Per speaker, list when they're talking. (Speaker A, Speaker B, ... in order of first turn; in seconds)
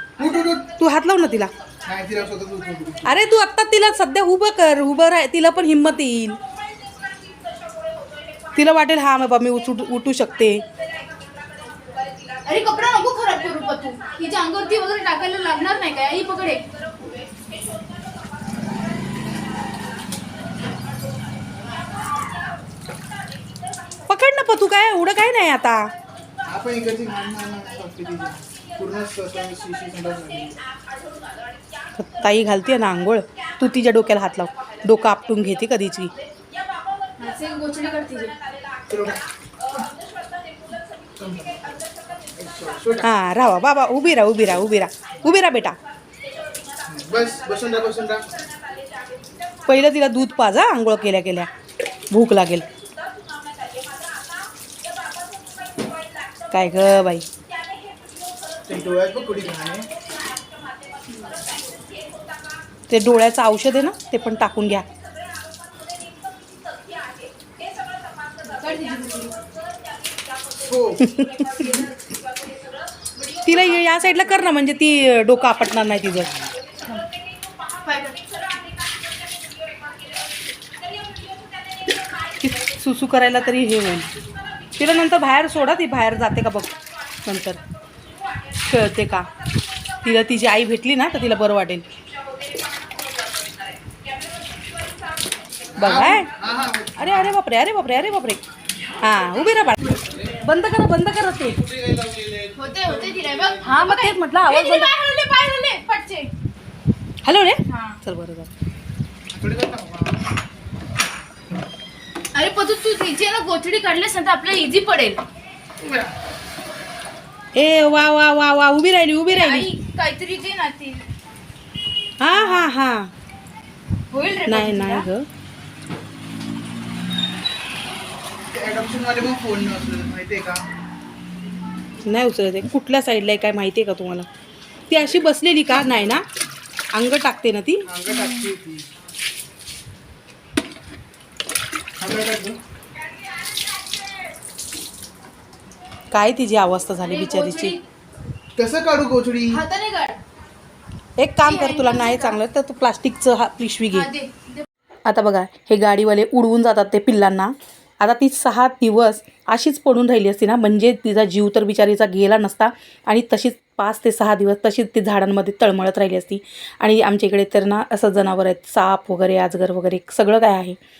Speaker A: 0.2-0.7, 1.8-3.1, 26.4-30.6, 38.9-39.2, 41.2-41.7, 42.4-43.1, 46.8-48.3, 58.6-59.9, 70.5-71.2, 95.8-97.3, 109.3-110.2, 115.8-116.1, 128.5-130.7, 137.8-138.9, 142.0-142.6, 148.6-149.6
Speaker B: 0.8-1.5, 3.0-6.4, 8.5-10.6, 24.1-25.9, 32.0-36.1, 43.0-45.8, 49.6-51.5, 52.1-52.6, 56.5-57.3, 62.9-64.8, 71.0-71.8, 73.4-76.3, 82.4-84.1, 84.8-87.6, 88.6-89.3, 90.0-91.8, 95.8-96.3, 97.0-98.4, 99.0-101.7, 103.6-104.9, 107.2-108.5, 117.5-119.7, 122.2-123.1, 124.5-125.3, 132.0-134.3, 134.9-136.2, 136.9-137.9, 146.1-147.7, 151.2-154.1, 155.0-170.8
Speaker C: 12.3-16.7, 37.2-38.4, 61.1-61.4, 68.4-69.4, 71.6-71.9, 73.8-74.1, 77.8-78.4, 102.5-106.3, 107.7-108.0, 112.3-115.2, 119.3-121.0, 122.3-122.7, 124.1-125.1, 138.1-138.5, 147.0-147.8, 149.5-150.2, 151.4-152.4, 153.9-154.7